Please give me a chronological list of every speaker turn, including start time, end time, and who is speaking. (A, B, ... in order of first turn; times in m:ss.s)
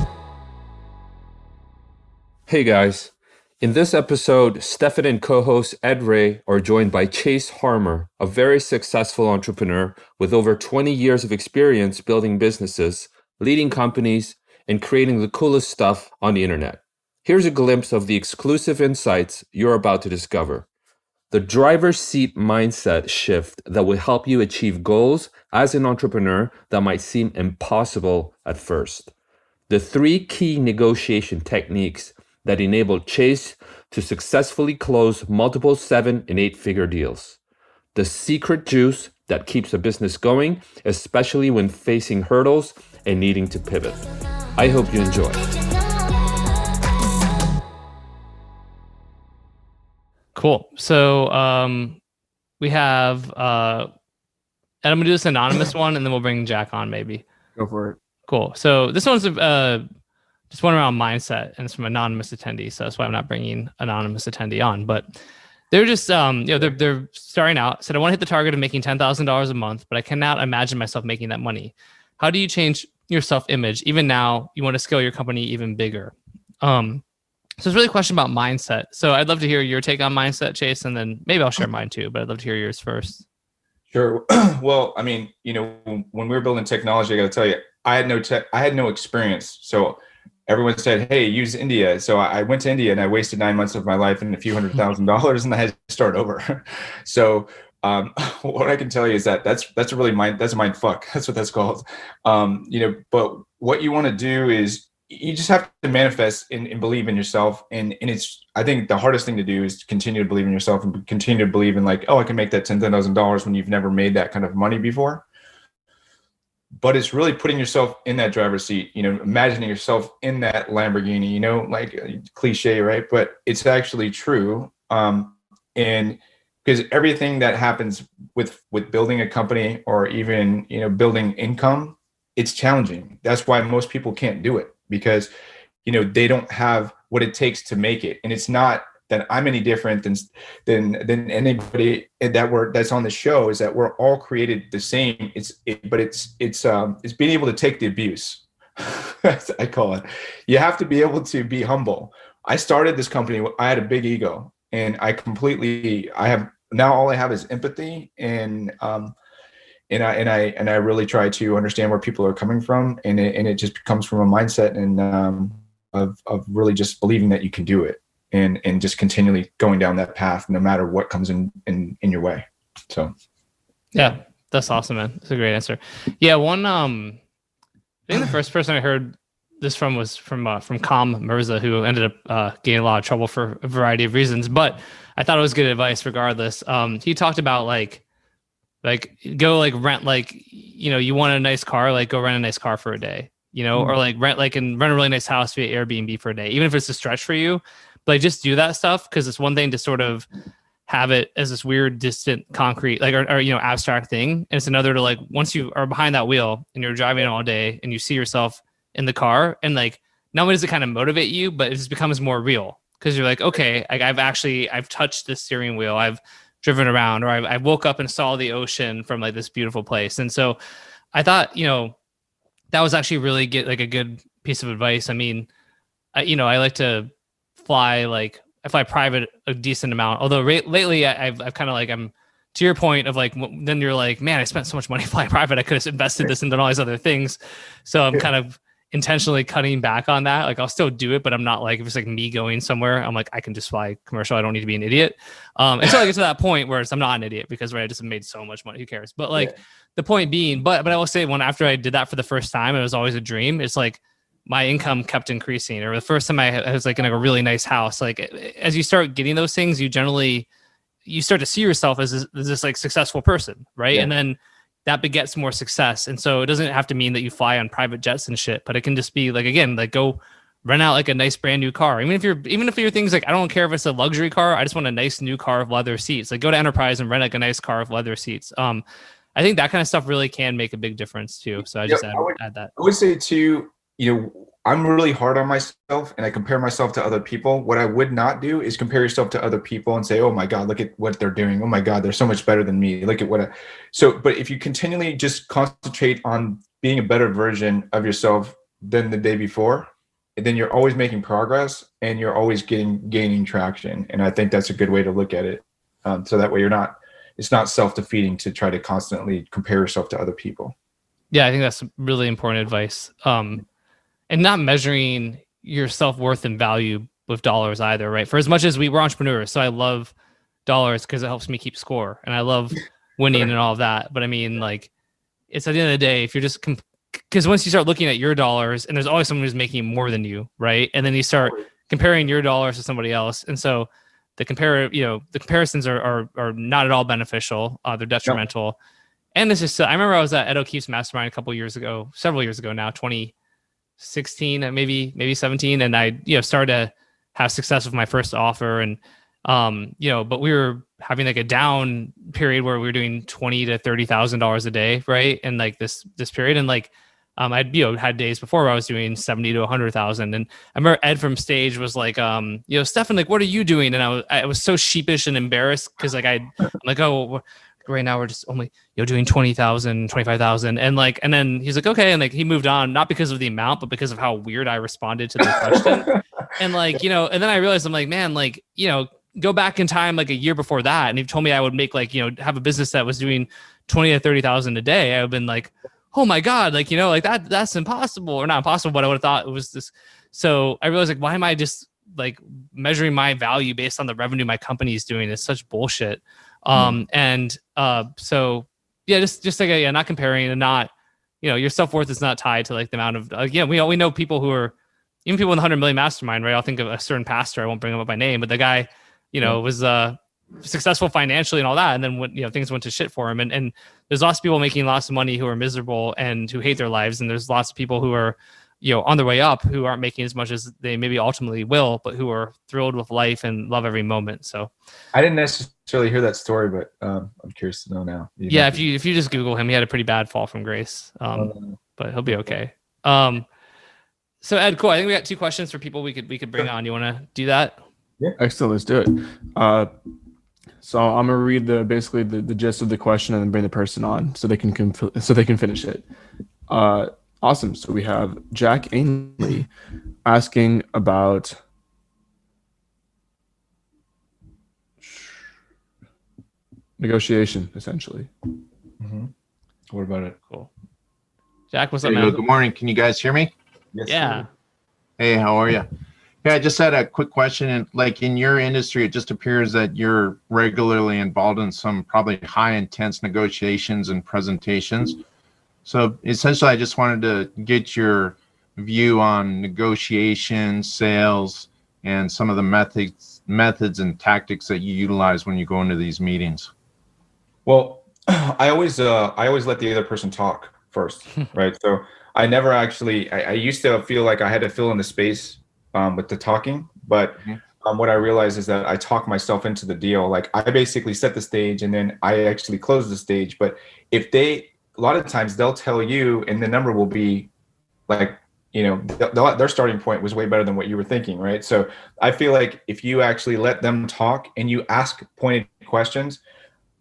0:02.5-0:20.7 A
0:21.3-0:29.1 A
0:29.7-0:37.4 A
0:38.0-0:44.0 A
0:44.6-0:45.4 A
0:50.4-0:52.0 B
0:52.6-0:53.9 B
0:54.8-0:57.2 B
0:57.6-0:58.0 C
0:58.3-0:59.8 B
1:00.5-1:05.1 B
1:05.7-1:17.0 B
1:17.6-1:23.2 B
1:23.9-1:55.2 D
1:56.8-2:15.3 D
2:15.8-2:39.2 D
2:39.9-2:53.1 D
2:53.9-2:57.2 B
2:58.1-3:08.0 B
3:08.8-3:20.3 B
3:20.9-3:40.6 B
3:41.1-3:42.0 B
3:42.7-3:45.5 B
3:46.2-3:47.1 B
3:47.6-4:20.5 B
4:21.1-4:38.8 B
4:39.4-4:42.7 B
4:41.9-5:10.8 D
5:11.3-5:13.6 B
5:14.3-5:20.1 B
5:20.7-5:24.9 B
5:25.5-5:38.8 B
5:39.4-5:43.3 B
5:44.0-6:44.7 B
6:36.7-6:37.0 D
6:45.3-7:04.7 B
7:05.1-7:08.8 D
7:08.5-7:13.5 B
7:11.4-7:12.6 D
7:14.4-7:17.8 B
7:18.4-7:19.9 C
7:20.8-7:26.1 C
7:26.7-7:29.7 C
7:30.2-7:31.6 C
7:37.0-7:38.3 C
7:39.0-7:39.3 D
7:39.9-7:40.4 D
7:41.7-7:42.4 B
7:42.0-7:43.5 E
7:43.9-7:44.4 D
7:44.1-7:44.5 B
7:45.2-7:45.9 E
7:46.4-7:55.2 E
7:55.9-8:06.7 E
8:07.7-8:27.5 D
8:28.1-8:36.4 D